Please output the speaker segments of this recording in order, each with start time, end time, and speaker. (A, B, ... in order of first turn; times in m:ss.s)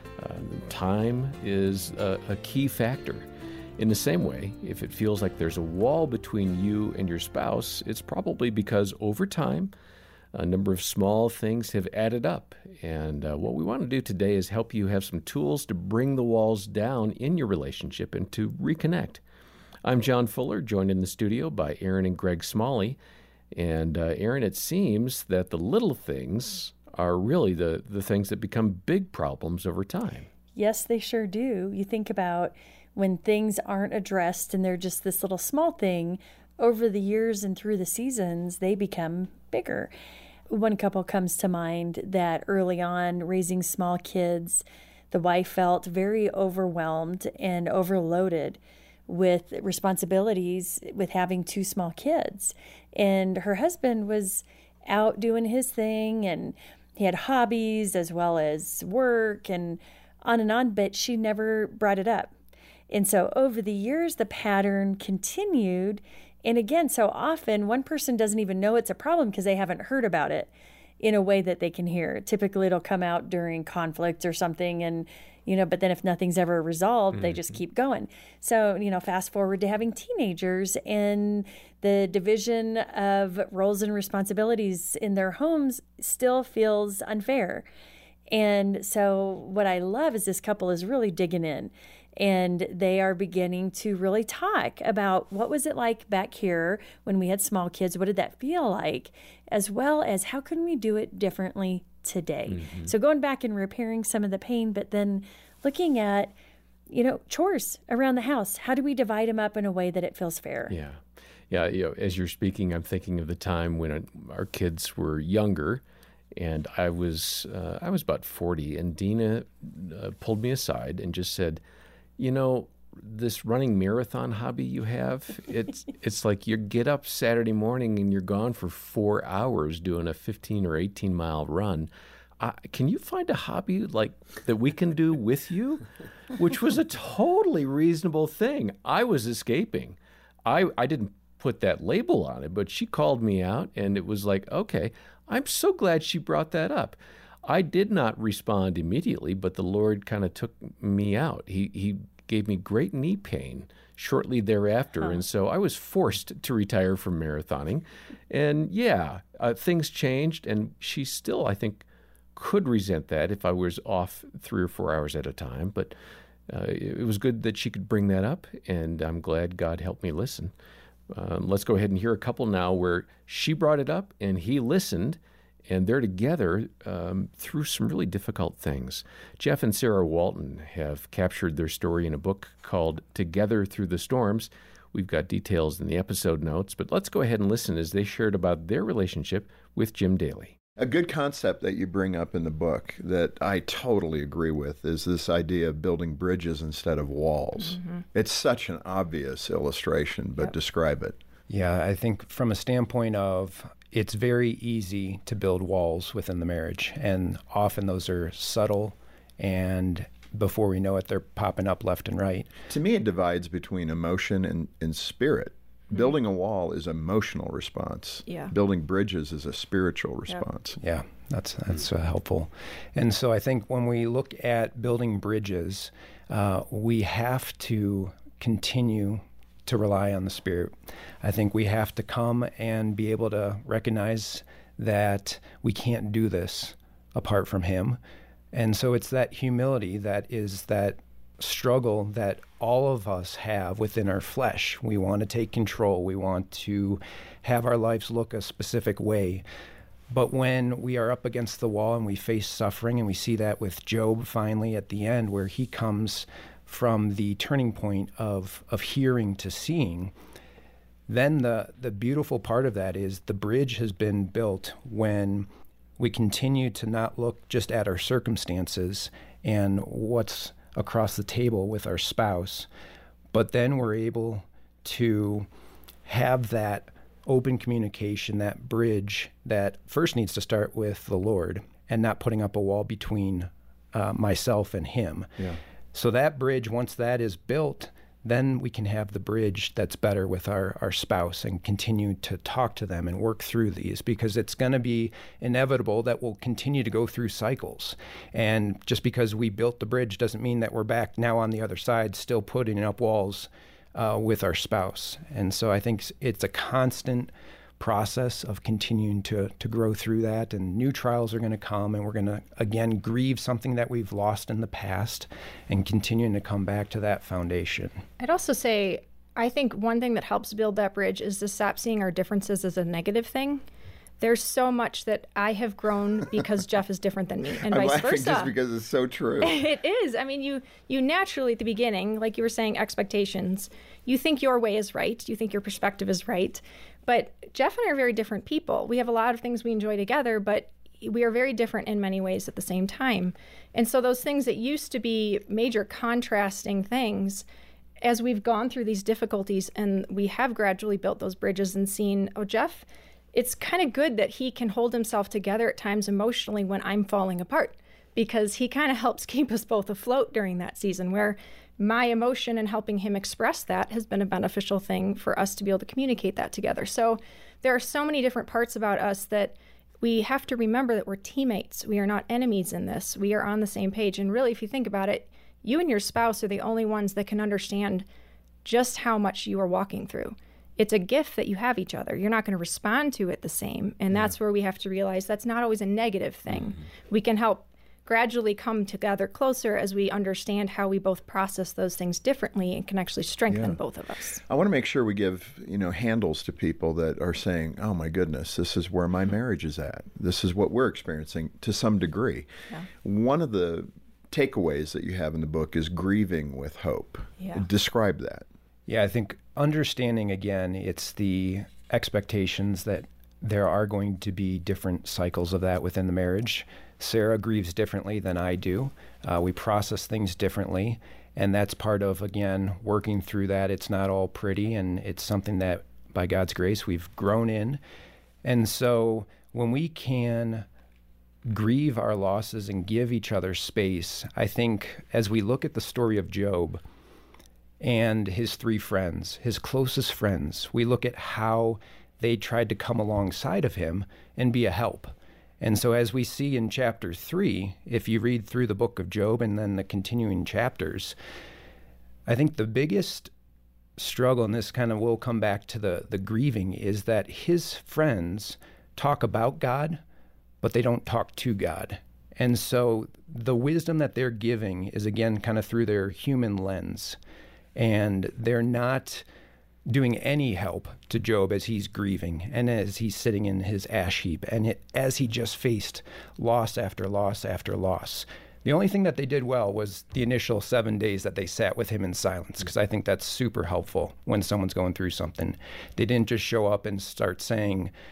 0:00.2-0:03.3 A
0:03.8-0:09.7 A
0:10.3-0:19.2 A
0:19.8-0:23.0 A
0:23.5-0:30.3 A
0:30.5-0:39.9 B
0:40.5-1:02.3 B
1:02.9-1:27.6 B
1:17.1-1:17.5 A
1:28.3-1:46.3 B
1:42.5-1:42.9 A
1:46.9-1:50.7 B
1:50.7-1:55.8 A
1:56.3-2:01.6 A
2:02.2-2:46.0 A
2:46.5-2:50.5 A
2:51.1-3:10.6 A
3:10.8-3:21.2 C
3:21.5-3:32.5 D
3:32.7-3:40.8 C
3:38.2-3:38.5 E
3:40.8-3:58.0 D
3:58.5-4:09.4 D
4:10.1-4:20.1 D
4:21.1-4:25.5 D
4:26.0-4:32.7 D
4:33.3-4:35.5 D
4:36.0-4:45.3 D
4:45.9-5:18.0 D
5:18.2-5:23.6 E
5:24.2-5:28.5 E
5:27.6-5:29.8 C
5:29.4-5:47.4 E
5:48.0-6:18.0 E
6:18.6-6:34.4 E
6:33.4-6:33.8 C
6:34.4-6:48.4 C
6:47.4-6:47.7 E
6:48.9-7:07.8 D
7:08.4-7:10.6 D
7:11.5-7:16.8 D
7:17.8-7:31.2 D
7:32.3-7:33.3 D
7:34.0-7:40.0 D
7:40.6-7:47.2 D
7:47.8-7:49.2 D
7:49.9-8:07.9 D